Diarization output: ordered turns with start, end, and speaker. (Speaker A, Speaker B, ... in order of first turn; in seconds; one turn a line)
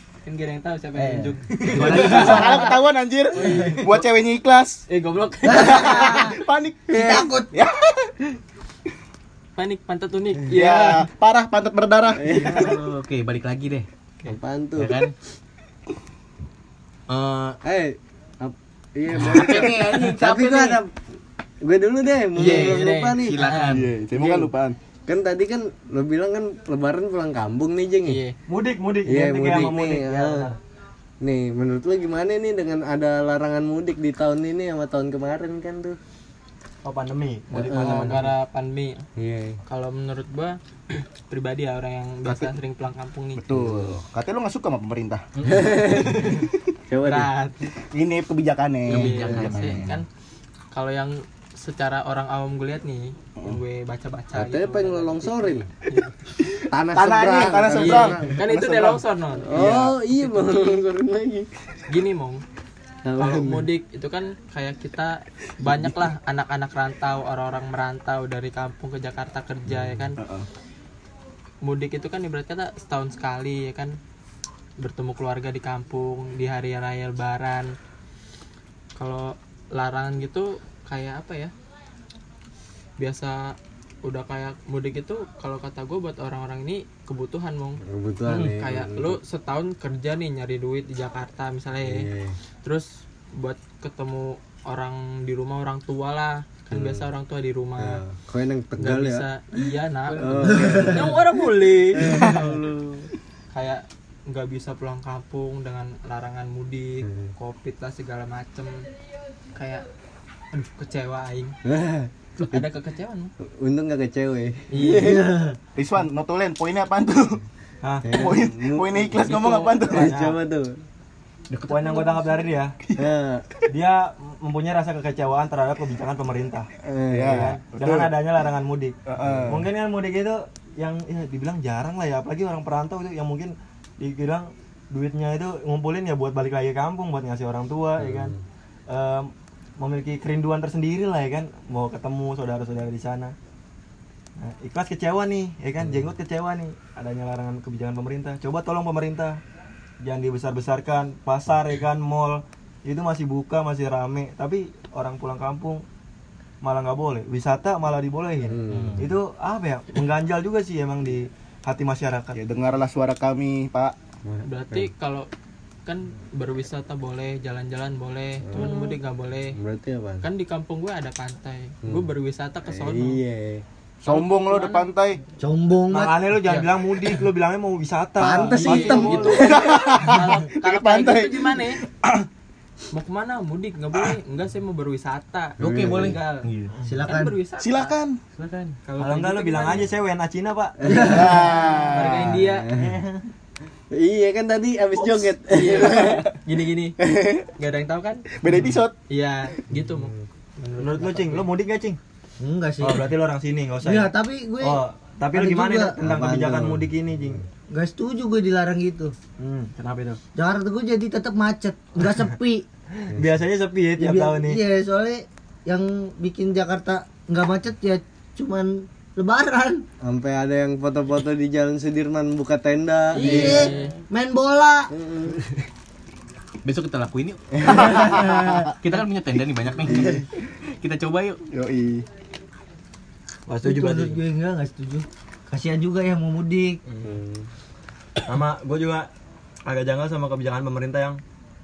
Speaker A: 0.2-2.8
Speaker B: 1.6-2.8
Speaker C: 1.8-4.8
Speaker A: 3.3-4.0
Speaker B: 3.5-3.8
Speaker A: 4.9-6.4
Speaker D: 5.5-6.3
Speaker C: 5.5-8.2
Speaker D: 6.9-7.5
Speaker E: 7.0-7.3
Speaker A: 9.6-11.1
Speaker C: 10.5-12.7
Speaker E: 12.2-12.7
Speaker B: 12.3-13.9
Speaker E: 14.2-15.0
Speaker B: 14.8-15.1
Speaker B: 17.1-17.6
Speaker E: 17.6-20.9
Speaker B: 19.1-20.8
Speaker E: 21.6-23.5
Speaker A: 22.3-23.9
Speaker B: 22.4-23.9
Speaker C: 23.7-24.8
Speaker E: 24.1-24.5
Speaker E: 25.1-28.2
Speaker A: 28.1-28.4
Speaker F: 28.5-30.6
Speaker E: 29.1-30.5
Speaker E: 31.2-36.0
Speaker F: 36.8-38.3
Speaker E: 37.5-38.2
Speaker A: 37.7-39.0
Speaker E: 39.2-39.6
Speaker A: 39.7-43.5
Speaker C: 43.4-45.2
Speaker E: 43.5-44.0
Speaker E: 45.4-47.3
Speaker A: 46.2-46.4
Speaker A: 47.0-47.7
Speaker C: 47.9-49.9
Speaker B: 48.9-50.0
Speaker A: 48.9-50.1
Speaker A: 50.7-56.1
Speaker E: 54.3-55.7
Speaker E: 56.7-58.4
Speaker C: 56.9-60.0
Speaker A: 57.8-60.8
Speaker E: 59.5-61.5
Speaker A: 61.9-62.4
Speaker E: 63.1-63.7
Speaker A: 63.2-70.2
Speaker C: 70.2-70.5
Speaker A: 71.6-74.0
Speaker A: 74.8-77.7
Speaker A: 79.0-81.5
Speaker A: 83.0-87.8
Speaker E: 87.8-89.2
Speaker A: 88.4-92.1
Speaker E: 91.8-92.4
Speaker A: 92.6-98.0
Speaker E: 96.7-97.1
Speaker E: 97.8-99.3
Speaker A: 98.8-102.5
Speaker B: 100.1-101.0
Speaker E: 100.2-101.2
Speaker E: 101.9-103.0
Speaker B: 102.2-102.5
Speaker A: 103.5-108.9
Speaker E: 107.0-107.3
Speaker A: 109.5-109.8
Speaker A: 110.5-111.5
Speaker E: 111.7-112.7
Speaker A: 112.4-113.3
Speaker E: 113.6-115.2
Speaker A: 114.7-115.3
Speaker D: 115.0-115.6
Speaker C: 115.8-117.4
Speaker F: 117.8-118.3
Speaker E: 118.0-120.8
Speaker C: 118.1-120.2
Speaker F: 120.0-120.4
Speaker F: 121.6-122.8
Speaker B: 121.7-122.3
Speaker E: 123.0-123.5
Speaker F: 123.7-126.7
Speaker E: 126.8-127.6
Speaker C: 127.1-128.1
Speaker F: 127.2-128.9
Speaker C: 129.1-129.7
Speaker F: 129.5-138.3
Speaker E: 138.0-138.4
Speaker F: 138.9-143.3
Speaker F: 144.4-149.4
Speaker F: 150.0-155.8
Speaker F: 156.6-162.4
Speaker E: 158.4-159.1
Speaker B: 158.7-159.0
Speaker C: 162.3-164.0
Speaker E: 164.3-164.9
Speaker A: 164.4-165.3
Speaker A: 165.9-169.6
Speaker E: 168.4-168.9
Speaker E: 169.6-170.3
Speaker A: 170.2-173.2
Speaker E: 171.8-172.1
Speaker E: 172.7-173.6
Speaker C: 174.0-175.2
Speaker A: 174.1-174.9
Speaker D: 175.4-176.2
Speaker F: 175.9-179.5
Speaker A: 176.4-177.2
Speaker E: 178.2-179.8
Speaker A: 178.4-181.8
Speaker C: 179.3-182.3
Speaker A: 182.9-186.2
Speaker B: 185.6-186.5
Speaker E: 185.6-186.7
Speaker D: 186.8-187.3
Speaker A: 187.0-188.0
Speaker C: 187.6-188.2
Speaker B: 188.4-188.8
Speaker A: 188.9-189.9
Speaker F: 189.0-191.1
Speaker E: 190.8-191.4
Speaker D: 190.9-191.5
Speaker C: 191.0-192.4
Speaker A: 191.4-192.8
Speaker E: 192.2-193.0
Speaker E: 193.9-196.3
Speaker A: 195.4-197.0
Speaker C: 197.1-197.4
Speaker A: 197.6-198.4
Speaker C: 198.4-198.9
Speaker A: 199.1-201.5
Speaker E: 199.7-200.1
Speaker F: 200.8-202.0
Speaker D: 202.4-203.1
Speaker F: 202.8-207.4
Speaker D: 203.8-204.8
Speaker D: 205.3-206.0
Speaker E: 206.0-207.4
Speaker D: 207.7-209.1
Speaker F: 209.4-210.2
Speaker D: 210.4-212.7
Speaker F: 213.0-214.6
Speaker E: 213.1-213.4
Speaker D: 214.0-219.9
Speaker E: 220.0-223.7
Speaker A: 223.1-224.0
Speaker D: 223.2-224.9
Speaker B: 223.2-223.9
Speaker E: 224.9-225.4
Speaker B: 226.7-230.3
Speaker D: 227.8-228.5
Speaker C: 227.8-228.6
Speaker C: 229.8-230.3
Speaker E: 229.9-230.2
Speaker B: 230.8-231.4
Speaker C: 231.5-232.1
Speaker F: 233.5-234.2
Speaker D: 233.6-236.8
Speaker F: 236.9-237.2
Speaker E: 237.1-237.5
Speaker F: 238.3-239.1
Speaker F: 239.7-241.2